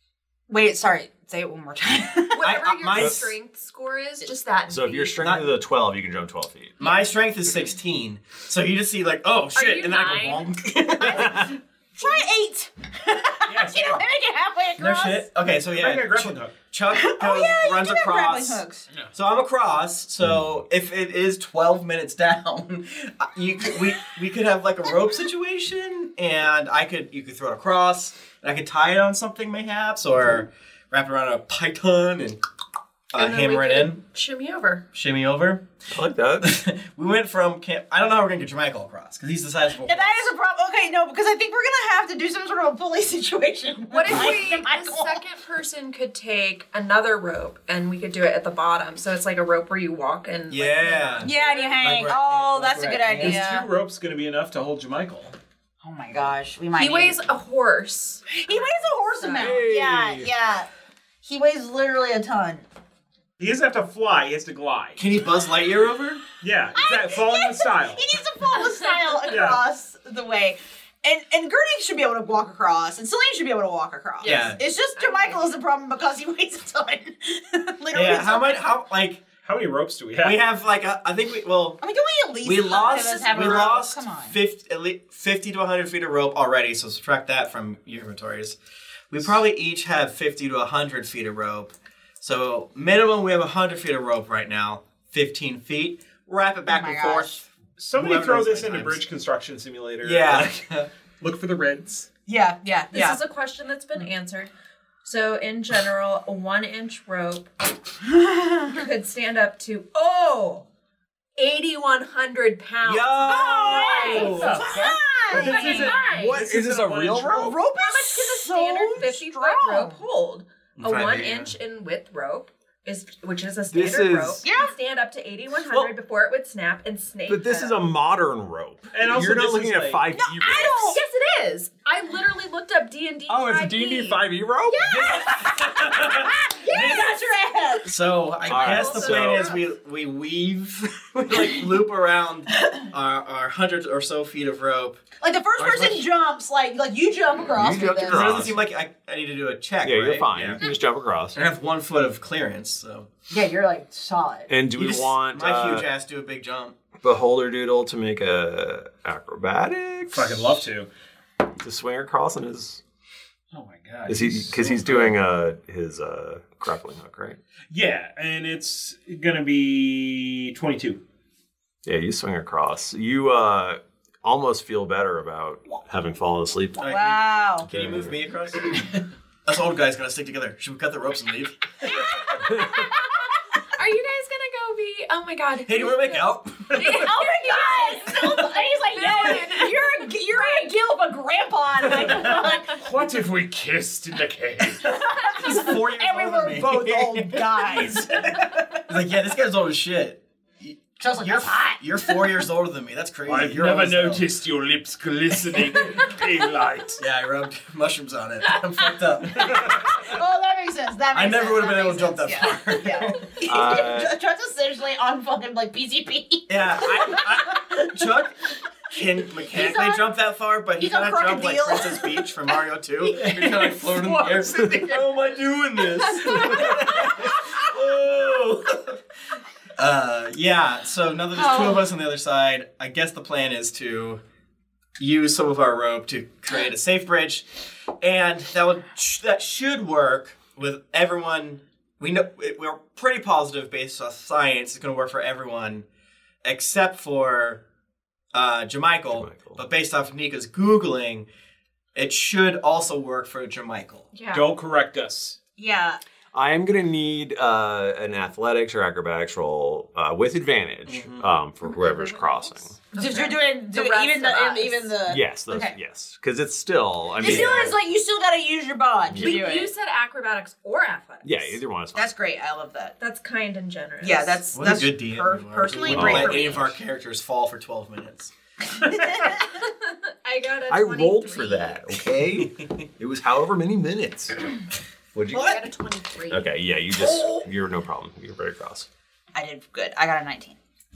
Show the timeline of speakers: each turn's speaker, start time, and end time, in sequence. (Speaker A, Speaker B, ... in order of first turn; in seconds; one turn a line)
Speaker A: 0.5-2.4
Speaker B: 2.3-5.2
Speaker C: 2.4-3.3
Speaker D: 4.7-6.8
Speaker C: 5.2-5.5
Speaker C: 6.8-11.6
Speaker B: 9.6-10.5
Speaker A: 11.0-15.3
Speaker D: 11.1-11.5
Speaker E: 13.5-14.1
Speaker C: 14.8-32.4
Speaker E: 15.7-16.6
Speaker A: 16.9-18.9
Speaker C: 33.1-34.0
Speaker B: 33.1-34.9
Speaker C: 34.9-35.6
Speaker D: 35.9-36.6
Speaker C: 36.4-40.2
Speaker A: 39.8-45.2
Speaker B: 43.9-51.8
Speaker C: 50.5-53.4
Speaker A: 51.2-53.7
Speaker E: 52.8-55.4
Speaker A: 55.8-57.2
Speaker B: 56.8-58.3
Speaker A: 58.3-60.7
Speaker D: 59.3-60.3
Speaker A: 61.2-62.7
Speaker E: 63.4-65.0
Speaker C: 65.0-66.2
Speaker E: 66.4-68.2
Speaker A: 66.8-78.7
Speaker E: 69.3-69.7
Speaker C: 74.2-74.6
Speaker B: 74.2-75.6
Speaker C: 77.9-79.3
Speaker E: 79.4-80.5
Speaker C: 80.2-81.8
Speaker A: 81.8-84.4
Speaker C: 82.4-88.6
Speaker C: 89.1-99.0
Speaker A: 96.7-97.4
Speaker E: 97.8-100.6
Speaker C: 100.0-100.9
Speaker E: 101.2-102.1
Speaker A: 102.3-103.2
Speaker B: 102.9-104.5
Speaker B: 105.0-107.5
Speaker A: 108.1-108.8
Speaker B: 108.7-110.7
Speaker B: 111.4-114.5
Speaker C: 112.8-114.7
Speaker A: 113.3-116.0
Speaker E: 114.3-117.5
Speaker B: 115.3-116.4
Speaker D: 115.4-117.6
Speaker A: 117.4-120.0
Speaker B: 117.8-127.9
Speaker C: 120.8-121.5
Speaker D: 123.7-124.4
Speaker A: 124.4-124.7
Speaker D: 127.3-131.0
Speaker E: 128.9-130.1
Speaker A: 130.2-131.0
Speaker B: 130.8-134.9
Speaker D: 133.3-135.2
Speaker A: 134.7-137.9
Speaker C: 135.8-136.3
Speaker C: 137.9-145.0
Speaker B: 138.4-139.6
Speaker D: 138.5-139.6
Speaker A: 145.2-148.5
Speaker C: 145.6-146.1
Speaker D: 147.5-148.7
Speaker C: 148.1-150.6
Speaker D: 149.8-151.4
Speaker C: 151.3-153.1
Speaker A: 153.3-154.5
Speaker D: 154.5-155.9
Speaker C: 154.7-156.8
Speaker D: 157.0-160.6
Speaker E: 160.1-160.9
Speaker D: 161.6-162.8
Speaker E: 163.5-165.2
Speaker D: 164.1-167.4
Speaker E: 167.7-171.0
Speaker D: 171.8-176.9
Speaker C: 176.8-182.4
Speaker A: 176.8-177.7
Speaker D: 177.7-178.2
Speaker A: 181.9-182.8
Speaker B: 183.7-190.7
Speaker C: 185.7-187.1
Speaker A: 186.8-192.8
Speaker E: 191.9-194.9
Speaker A: 195.1-198.6
Speaker C: 195.2-198.0
Speaker C: 198.9-204.3
Speaker A: 201.0-202.4
Speaker E: 203.3-207.0
Speaker C: 207.0-210.1
Speaker A: 209.9-217.8
Speaker C: 211.1-213.3
Speaker D: 213.4-214.1
Speaker C: 216.5-218.4
Speaker C: 218.9-229.0
Speaker A: 219.4-220.1
Speaker A: 220.8-222.3
Speaker E: 223.2-225.2
Speaker C: 229.8-234.2
Speaker A: 231.3-231.9
Speaker C: 235.0-237.5
Speaker C: 238.0-245.9
Speaker C: 246.4-247.6
Speaker C: 248.3-251.3
Speaker D: 249.1-249.6
Speaker C: 251.9-254.1
Speaker B: 254.1-254.5
Speaker E: 254.3-255.4
Speaker A: 255.6-256.0
Speaker D: 256.3-262.8
Speaker C: 260.9-261.3
Speaker B: 261.6-264.9
Speaker A: 262.9-265.8
Speaker D: 265.1-267.8
Speaker A: 267.2-269.7
Speaker C: 267.3-267.6
Speaker D: 269.1-269.3
Speaker B: 269.2-271.6
Speaker D: 271.2-272.1
Speaker A: 271.9-272.9
Speaker B: 273.0-274.4
Speaker A: 274.0-276.7
Speaker C: 274.5-278.3
Speaker D: 275.8-276.7
Speaker A: 279.0-279.3
Speaker B: 279.6-281.8
Speaker D: 280.7-284.4
Speaker C: 282.4-282.7
Speaker D: 285.1-285.6
Speaker B: 285.3-286.5
Speaker D: 286.3-288.9
Speaker A: 286.9-287.5
Speaker A: 289.3-290.6